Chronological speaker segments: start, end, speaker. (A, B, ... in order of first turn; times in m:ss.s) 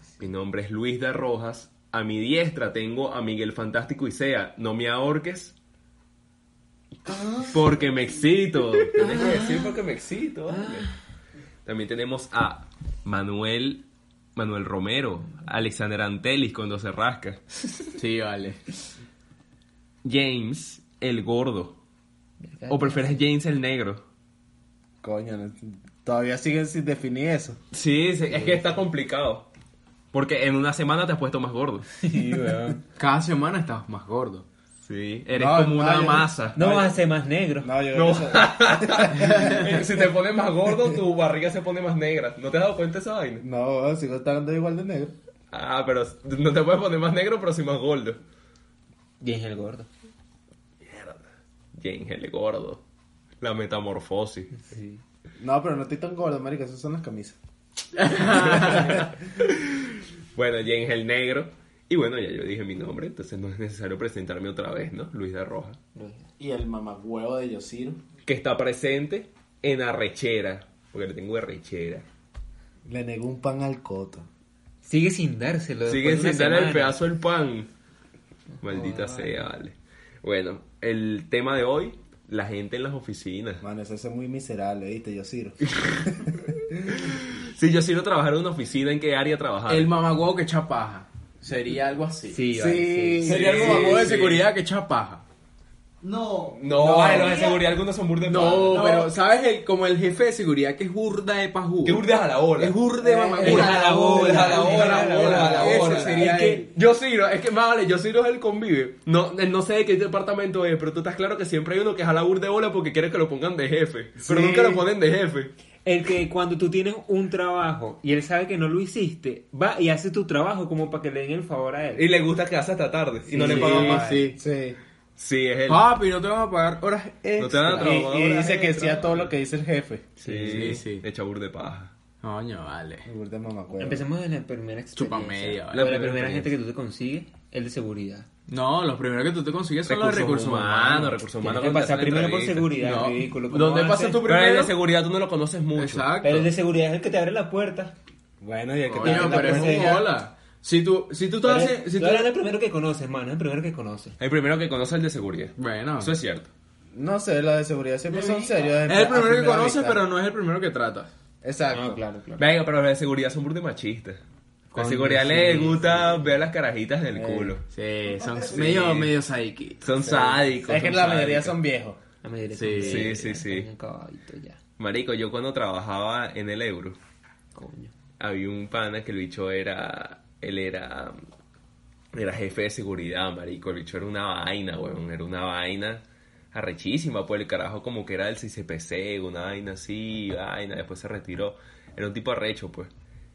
0:00.2-0:05.6 A
0:07.4-0:10.9 A
0:09.0-0:09.7 B
0:10.6-0:10.9 B
0:11.6-0:17.4 A
0:18.0-0:18.6 C
0:20.0-0:21.8 A
0:22.4-0:23.2 B
0:22.7-0:24.0 A
0:25.0-0:27.6 D
0:27.7-0:29.5 A
0:30.1-0:32.0 A
0:32.0-0:32.8 B
0:33.0-0:34.4 C
0:34.8-0:36.9 A
0:35.3-0:36.3 D
0:36.6-0:37.7 B
0:37.6-0:39.7 D
0:37.9-0:43.4 A
0:43.4-0:45.2 D
0:45.5-0:48.2 A
0:49.2-0:49.9 B
0:50.8-0:51.2 A
0:51.7-0:52.8 A
0:53.4-0:54.5 A
0:54.6-0:55.0 B
0:55.4-0:57.4 D
0:58.0-0:59.0 C
0:58.2-1:05.8 A
0:58.6-0:59.0 D
1:06.0-1:06.3 B
1:06.4-1:08.0 D
1:08.3-1:12.0 A
1:12.9-1:14.3 D
1:14.8-1:17.0 B
1:15.9-1:17.7 A
1:18.6-1:23.6 A
1:18.7-1:19.4 B
1:23.6-1:27.0 D
1:25.7-1:26.1 A
1:26.9-1:29.9 A
1:29.7-1:32.4 C
1:32.3-1:33.4 B
1:32.5-1:34.1 D
1:33.2-1:35.2 C
1:33.2-1:34.5 A
1:36.0-1:37.7 E
1:36.6-1:39.1 A
1:36.8-1:37.5 C
1:38.2-1:42.0 C
1:38.6-1:39.1 E
1:41.8-1:42.8 A
1:42.6-1:46.7 C
1:43.0-1:46.7 B
1:43.4-1:55.5 A
1:54.2-1:54.9 D
1:55.8-2:02.1 B
2:02.0-2:04.3 A
2:03.3-2:04.2 B
2:03.4-2:04.4 C
2:03.4-2:04.8 D
2:05.2-2:05.9 A
2:05.7-2:08.1 C
2:07.4-2:09.3 A
2:07.8-2:10.1 D
2:10.2-2:11.9 A
2:10.2-2:11.0 C
2:10.3-2:10.7 B
2:12.2-2:13.1 C
2:13.0-2:14.1 D
2:13.8-2:18.3 B
2:15.0-2:16.4 C
2:15.7-2:16.4 A
2:18.5-2:21.2 C
2:19.9-2:22.8 A
2:21.4-2:24.2 B
2:22.8-2:24.7 C
2:24.2-2:26.1 A
2:25.8-2:26.5 C
2:26.2-2:28.0 B
2:28.4-2:30.1 D
2:28.9-2:32.3 C
2:29.0-2:30.1 B
2:31.4-2:34.2 B
2:34.2-2:36.5 A
2:35.6-2:36.1 C
2:36.9-2:40.0 D
2:38.1-2:38.8 E
2:38.9-2:41.1 C
2:41.4-2:42.0 D
2:41.7-2:42.5 B
2:42.4-2:44.2 A
2:44.7-2:46.1 B
2:44.8-2:47.6 A
2:44.8-2:45.8 C
2:47.1-2:47.6 D
2:47.7-2:49.9 C
2:48.2-2:48.5 E
2:48.5-2:49.1 A
2:49.8-2:51.5 A
2:50.0-2:52.0 D
2:52.2-2:54.6 B
2:52.5-2:53.2 C
2:52.8-2:53.7 A
2:54.8-2:57.0 A
2:57.6-2:57.9 B
2:58.2-3:01.2 A
3:02.1-3:06.0 A
3:06.5-3:12.9 A